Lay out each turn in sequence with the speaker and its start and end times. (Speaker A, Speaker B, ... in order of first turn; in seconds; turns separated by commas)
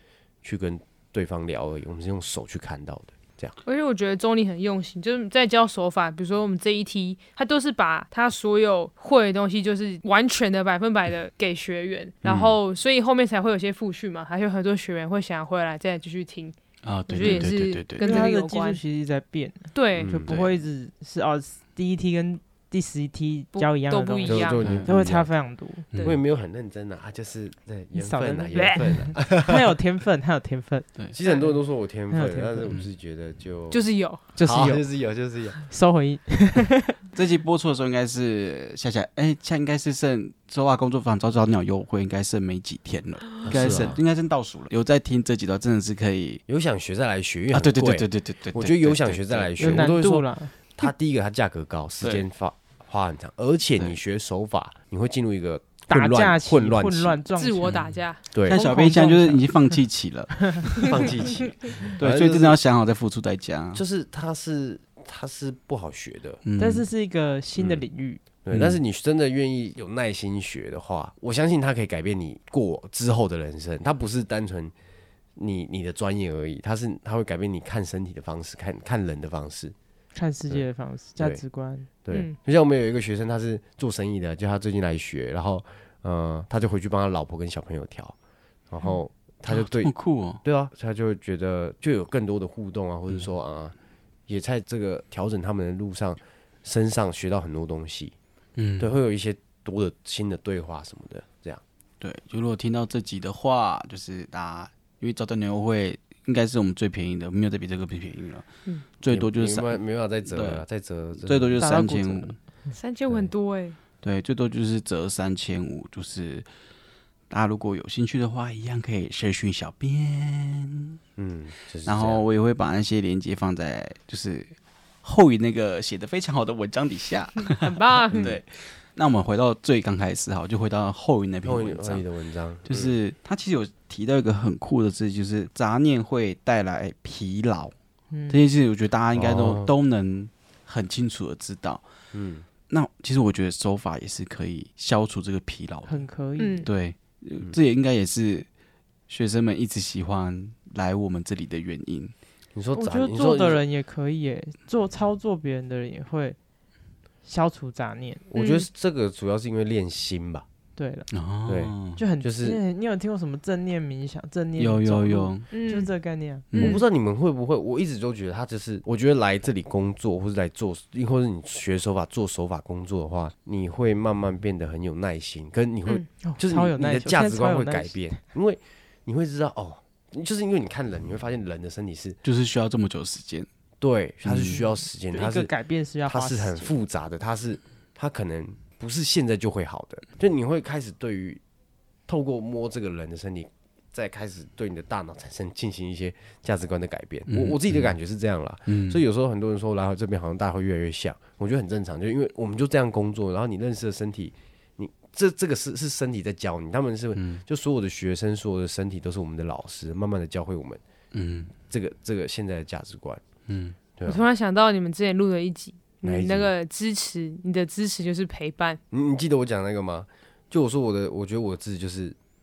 Speaker A: 0.4-3.5, Speaker B: 3.6-16.5, Speaker A: 12.2-12.6, Speaker C: 16.8-18.2, Speaker B: 17.1-18.8, Speaker D: 18.0-25.9, Speaker B: 19.7-20.1, Speaker A: 19.9-20.3, Speaker C: 20.2-20.5, Speaker B: 23.5-24.6, Speaker A: 24.2-25.3, Speaker A: 26.0-29.7, Speaker D: 27.9-32.8, Speaker A: 31.1-33.9, Speaker B: 33.7-34.2, Speaker D: 34.3-34.9, Speaker A: 34.4-35.6, Speaker D: 35.6-36.9, Speaker C: 37.1-46.4, Speaker A: 43.4-44.0, Speaker A: 46.5-57.2, Speaker C: 47.5-50.0, Speaker D: 49.6-50.5, Speaker D: 55.9-57.7, Speaker B: 57.4-58.2, Speaker C: 57.6-60.8, Speaker A: 58.3-58.6, Speaker D: 58.5-59.8, Speaker A: 60.8-62.6, Speaker C: 62.0-63.8, Speaker A: 63.7-66.4, Speaker C: 66.4-66.8, Speaker D: 66.6-68.2, Speaker A: 67.6-67.8, Speaker A: 68.4-74.7, Speaker C: 68.5-68.8, Speaker A: 75.3-79.7, Speaker D: 80.1-81.9, Speaker A: 81.2-81.4, Speaker A: 82.0-88.1, Speaker B: 82.1-82.3, Speaker A: 88.7-93.7, Speaker C: 89.5-90.4, Speaker A: 94.3-98.1, Speaker C: 98.6-98.9, Speaker A: 98.8-101.6, Speaker C: 102.0-108.5, Speaker C: 109.0-110.6, Speaker A: 109.0-111.6, Speaker C: 111.2-112.4, Speaker D: 111.5-112.8, Speaker B: 112.7-113.8, Speaker C: 114.0-116.5, Speaker C: 117.3-121.0, Speaker A: 121.2-122.2, Speaker C: 121.8-132.1, Speaker B: 127.6-128.4, Speaker A: 131.4-132.9, Speaker C: 132.7-137.7, Speaker D: 138.1-138.4, Speaker C: 138.3-141.8, Speaker A: 139.1-139.7, Speaker A: 142.1-142.5, Speaker C: 142.6-146.0, Speaker D: 145.8-146.7, Speaker B: 146.4-146.7, Speaker C: 146.6-148.5, Speaker C: 149.1-152.1, Speaker A: 152.5-153.6, Speaker D: 152.7-156.4, Speaker D: 157.2-158.2, Speaker A: 158.3-160.4, Speaker B: 158.3-158.7, Speaker D: 160.8-161.1, Speaker C: 161.1-162.0, Speaker A: 161.5-162.6, Speaker D: 161.9-166.5, Speaker C: 164.6-165.5, Speaker B: 165.5-165.9, Speaker C: 166.5-166.8, Speaker B: 166.5-166.8, Speaker A: 166.5-182.2, Speaker D: 176.2-178.2, Speaker C: 182.2-183.5, Speaker A: 183.8-191.4, Speaker C: 184.2-184.6, Speaker D: 184.5-186.7, Speaker A: 192.1-210.8, Speaker C: 197.3-197.9, Speaker C: 198.7-199.0, Speaker C: 207.2-207.4, Speaker C: 211.1-211.5, Speaker A: 211.7-213.2, Speaker C: 213.5-213.8, Speaker A: 214.0-214.2, Speaker B: 214.0-218.8, Speaker A: 216.0-216.5, Speaker A: 218.9-222.2